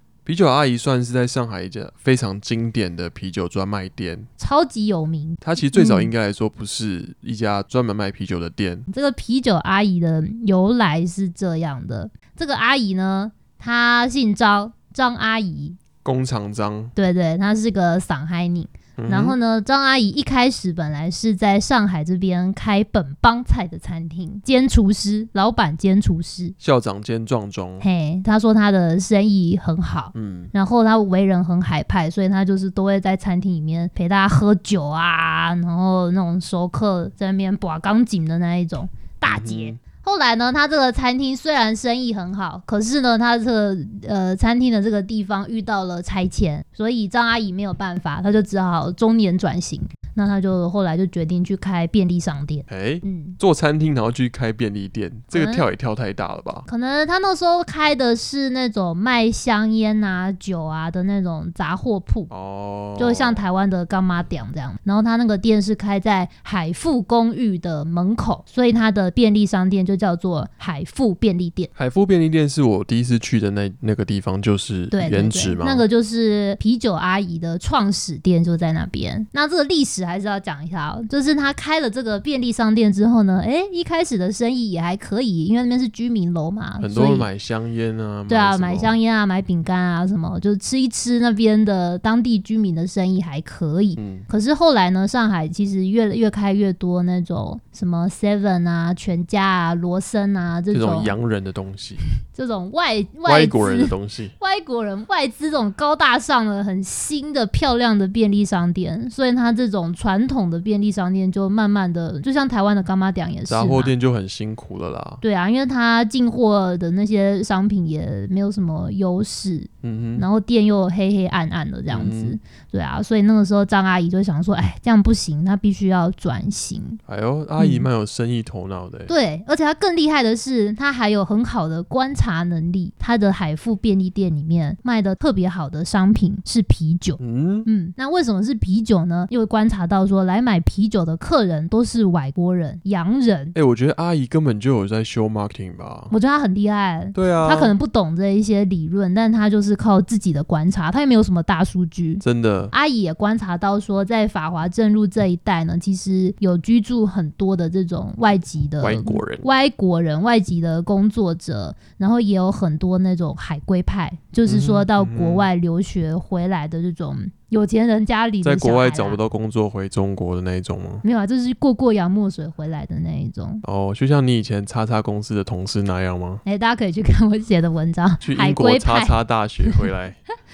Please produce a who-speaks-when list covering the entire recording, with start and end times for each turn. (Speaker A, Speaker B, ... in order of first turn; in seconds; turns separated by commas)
Speaker A: 0.2-4.3, Speaker B: 4.4-6.1, Speaker A: 5.4-8.9, Speaker B: 8.9-15.8, Speaker A: 16.0-16.9, Speaker B: 16.9-26.6, Speaker A: 19.0-19.4, Speaker A: 26.6-27.8, Speaker B: 27.8-53.4, Speaker A: 30.1-30.5, Speaker A: 39.2-39.8, Speaker A: 52.7-56.7, Speaker B: 55.3-55.7, Speaker B: 56.7-62.3, Speaker A: 62.3-63.4, Speaker B: 63.0-71.7, Speaker A: 71.8-75.8, Speaker B: 74.9-87.3, Speaker A: 86.8-89.0, Speaker B: 88.3-101.1, Speaker A: 94.0-94.3, Speaker A: 100.7-102.0, Speaker B: 102.3-113.9, Speaker A: 103.2-104.3, Speaker A: 113.5-115.2, Speaker B: 115.2-127.0, Speaker A: 119.8-120.2, Speaker A: 121.9-122.4, Speaker A: 127.1-129.1, Speaker B: 127.6-127.9, Speaker B: 129.1-143.5, Speaker A: 137.2-137.7, Speaker A: 143.5-146.1, Speaker B: 146.1-169.2, Speaker A: 147.1-147.7, Speaker A: 152.2-152.7, Speaker A: 158.8-159.5, Speaker A: 164.5-165.5, Speaker A: 168.4-171.0, Speaker B: 171.0-173.6, Speaker A: 173.6-176.4, Speaker B: 176.4-179.8, Speaker A: 178.2-180.2